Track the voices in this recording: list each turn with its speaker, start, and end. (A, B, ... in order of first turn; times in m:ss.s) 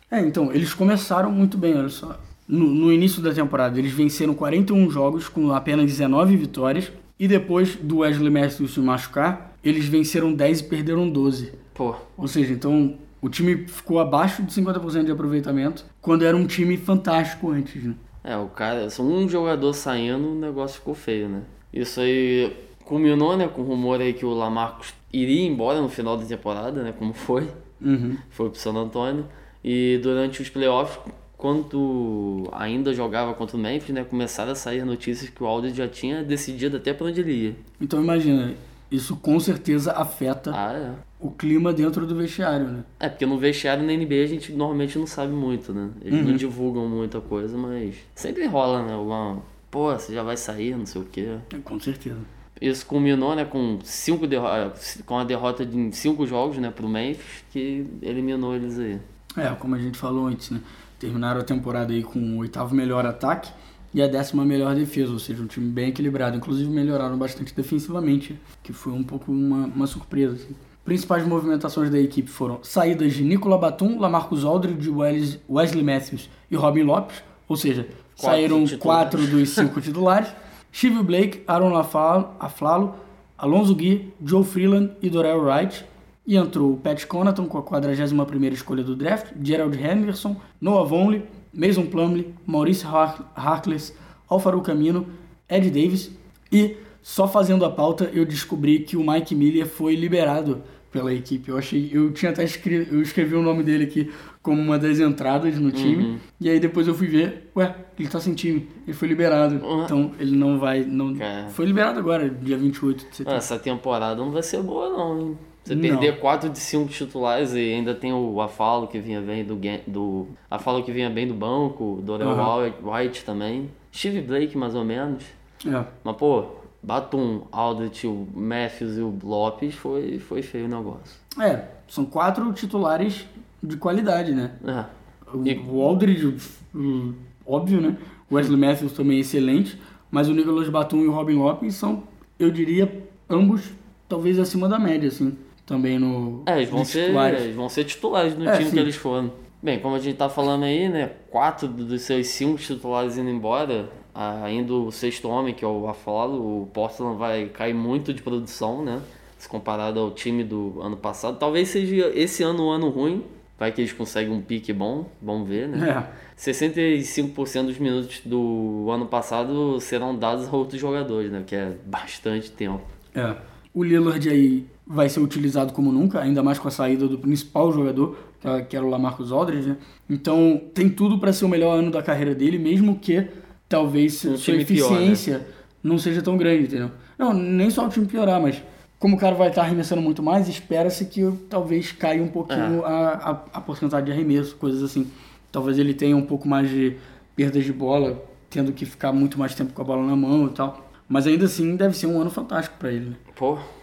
0:00.1-0:11.6 A
0:11.7-0:12.0 B
0:12.2-0:18.0 A
0:18.2-0:27.6 B
0:27.8-0:28.2 A
0:28.3-0:37.6 B
0:37.8-0:40.6 A
0:40.5-0:41.0 B
0:41.2-0:42.9 A
0:43.0-0:51.4 B
0:46.1-0:46.4 A
0:51.5-0:52.3 A
0:52.6-0:59.0 B
0:59.4-1:53.5 A
1:18.2-1:19.7 B
1:45.7-1:46.2 B
1:49.6-1:49.9 B
1:51.1-1:51.6 B
1:53.2-2:05.3 B
1:55.7-1:56.1 A
2:02.2-2:02.5 A
2:05.6-2:05.9 A
2:06.0-2:11.2 B
2:11.4-2:14.6 A
2:14.6-2:14.9 B
2:15.3-2:27.5 A
2:26.4-2:52.8 B
2:28.4-2:28.9 A
2:45.7-2:46.1 A
2:53.1-3:23.2 A
3:04.2-3:05.2 B
3:12.5-3:12.8 B
3:23.3-3:23.6 B